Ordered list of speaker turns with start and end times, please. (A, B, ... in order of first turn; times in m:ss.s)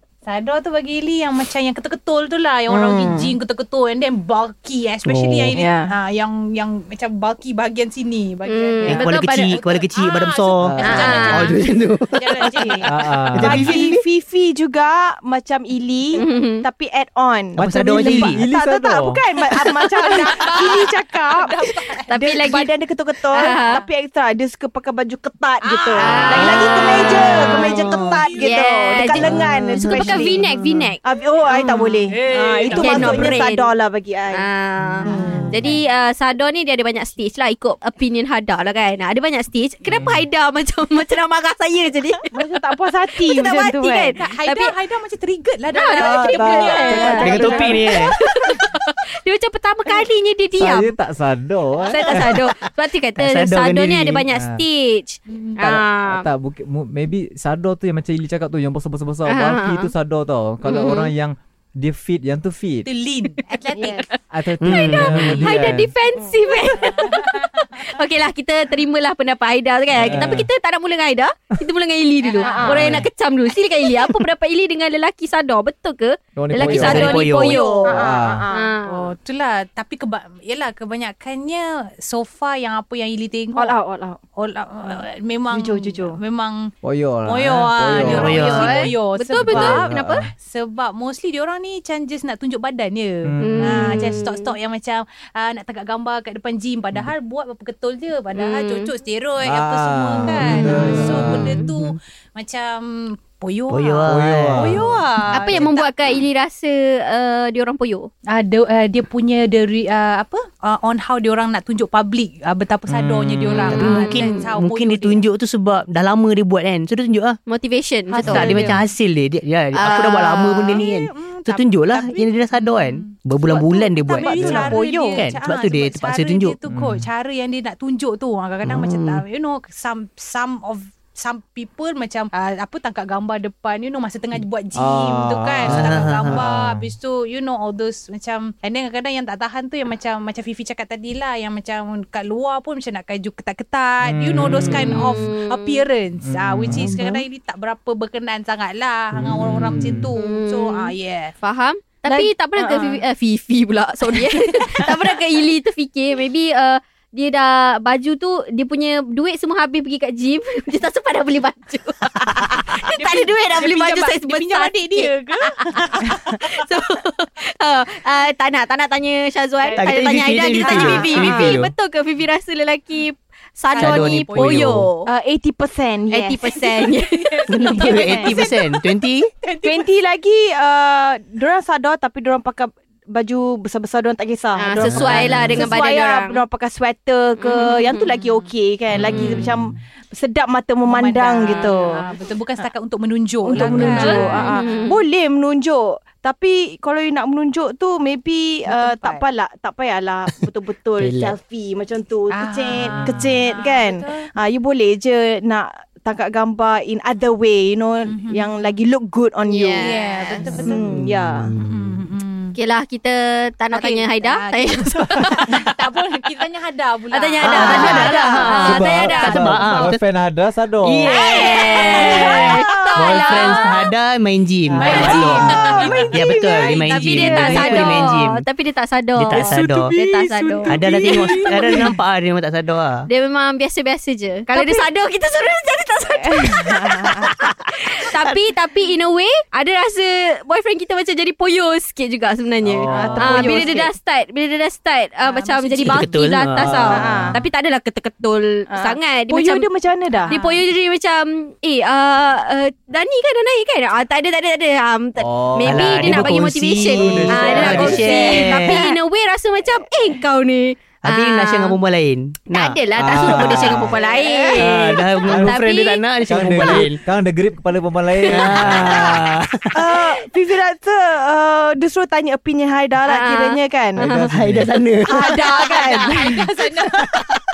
0:00.2-0:12.9 A
0:02.7-0:03.3 B
0:05.0-0:05.6 C
0:05.5-0:05.9 B
0:08.5-0:09.6 D
0:08.8-0:12.2 C
0:10.6-0:11.1 E
0:10.9-0:11.6 D
0:12.3-0:12.9 B
0:12.8-0:13.7 E
0:13.3-0:14.0 C
0:13.4-0:34.4 B
0:16.2-0:16.6 D
0:17.6-0:18.4 C
0:17.6-0:19.2 E
0:19.9-0:22.0 A
0:22.1-0:22.7 D
0:23.3-0:23.8 D
0:23.4-0:23.8 A
0:25.6-0:28.4 A
0:26.0-0:32.0 D
0:26.3-0:28.2 C
0:29.2-0:30.4 C
0:32.1-0:33.3 A
0:32.7-0:33.7 D
0:34.3-0:42.3 D
0:35.0-0:35.7 B
0:35.1-0:35.7 A
0:39.9-0:40.2 E
0:42.3-0:44.2 B
0:43.2-0:44.7 D
0:44.2-0:48.0 A
0:45.7-0:50.9 D
0:46.0-0:48.0 B
0:46.6-0:47.8 E
0:47.2-0:48.1 C
0:50.6-0:52.5 E
0:51.9-0:56.2 D
0:53.2-0:54.2 C
0:54.3-0:54.6 E
0:55.3-0:55.6 A
0:55.6-1:02.9 E
0:59.3-0:59.9 D
1:00.6-1:01.1 D
1:02.8-1:04.2 A
1:03.7-1:04.1 B
1:04.3-1:05.9 E
1:04.6-1:05.5 C
1:04.7-1:18.0 D
1:06.1-1:06.4 B
1:06.8-1:07.8 A
1:09.9-1:10.5 E
1:12.2-1:13.0 A
1:12.4-1:12.9 B
1:12.7-1:13.1 E
1:16.4-1:17.3 E
1:16.6-1:17.6 C
1:16.8-1:18.7 B
1:17.8-1:18.4 E
1:18.5-1:19.1 D
1:18.8-1:23.8 A
1:23.6-1:24.2 B
1:24.4-1:26.7 A
1:25.5-1:26.2 B
1:26.8-1:30.3 E
1:27.3-1:46.2 A
1:28.0-1:28.9 C
1:28.3-1:30.2 D
1:33.2-1:34.0 E
1:33.4-1:34.5 D
1:38.3-1:38.9 D
1:39.4-1:41.5 E
1:40.4-1:42.0 C
1:41.2-1:41.6 D
1:43.7-1:44.8 C
1:44.0-1:45.6 E
1:45.3-1:48.1 D
1:48.3-1:55.2 A
1:52.9-1:53.8 E
1:53.7-1:57.4 C
1:53.8-1:54.4 D
1:57.5-1:58.7 D
1:58.1-1:58.8 A
1:58.2-2:04.6 C
1:58.3-1:58.6 B
1:59.7-2:00.8 D
2:00.7-2:03.2 A
2:03.5-2:05.2 B
2:04.0-2:31.3 A
2:04.3-2:04.7 E
2:05.1-2:06.6 C
2:06.7-2:07.1 E
2:08.6-2:09.2 C
2:14.7-2:16.8 E
2:15.6-2:16.4 C
2:24.0-2:25.2 E
2:24.5-2:25.0 C
2:25.0-2:25.8 D
2:26.2-2:27.0 E
2:26.7-2:27.2 C
2:29.1-2:30.1 E
2:30.2-2:55.1 D
2:32.0-2:33.0 B
2:42.9-2:45.9 A
2:49.8-2:51.7 C
2:50.6-2:51.3 A
2:50.6-2:51.5 B
2:53.7-2:54.6 A
2:53.8-2:54.9 C
2:55.0-2:56.7 B
2:56.1-2:58.3 D
2:57.0-2:58.9 A
2:57.5-2:59.3 C
2:57.6-2:58.5 B
2:59.4-2:59.9 A
2:59.6-3:12.0 B
3:04.6-3:06.4 D
3:04.8-3:05.7 E
3:04.9-3:05.4 C
3:07.4-3:08.4 D
3:09.0-3:09.4 A
3:09.1-3:09.5 D
3:10.8-3:15.0 A
3:11.4-3:11.7 D
3:13.4-3:30.0 B
3:13.6-3:14.1 E
3:14.0-3:15.0 D
3:18.6-3:19.2 A
3:21.0-3:21.4 C
3:22.3-3:24.2 A
3:22.9-3:23.4 E
3:28.1-3:28.5 A
3:29.4-3:30.4 D
3:29.8-3:30.8 A
3:30.5-3:31.5 B
3:30.5-3:31.5 E
3:31.4-3:31.8 C
3:31.6-3:32.6 A
3:32.5-3:35.6 D
3:33.7-3:38.1 A
3:37.1-3:39.8 D
3:37.4-3:40.0 C
3:37.6-3:38.7 B
3:37.7-3:38.1 E
3:38.6-3:41.1 E
3:40.8-3:48.4 C
3:41.0-3:43.7 D
3:41.1-3:43.9 B
3:41.7-3:42.2 A
3:44.8-3:46.1 E
3:44.8-3:48.1 B
3:44.8-3:46.1 A
3:44.8-3:45.1 D
3:46.8-3:51.8 D
3:47.0-3:47.8 A
3:49.2-3:49.9 C
3:49.4-3:51.1 E
3:50.6-3:53.1 C
3:50.8-3:51.9 B
3:53.1-4:09.7 D
3:54.5-3:54.9 B
3:56.2-3:57.3 B
4:02.6-4:03.7 E
4:02.9-4:03.9 B
4:05.2-4:06.0 A
4:05.8-4:07.0 C
4:06.6-4:07.4 E
4:06.9-4:07.4 B
4:08.7-4:10.3 B
4:10.2-4:10.6 A
4:10.3-4:21.8 D
4:15.2-4:16.3 E
4:15.6-4:18.9 C
4:16.9-4:18.2 E
4:17.6-4:18.6 B
4:21.0-4:22.8 C
4:22.5-4:26.0 D
4:23.0-4:24.0 E
4:23.4-4:24.6 B
4:24.6-4:27.0 C
4:25.3-4:25.6 E
4:26.2-4:29.2 E
4:28.3-4:29.8 C
4:28.3-4:29.1 D
4:29.7-4:34.1 B
4:33.0-4:34.3 D
4:34.0-4:34.7 E
4:34.3-4:35.4 C
4:35.1-4:36.4 B
4:35.2-4:37.2 A
4:35.5-4:36.1 D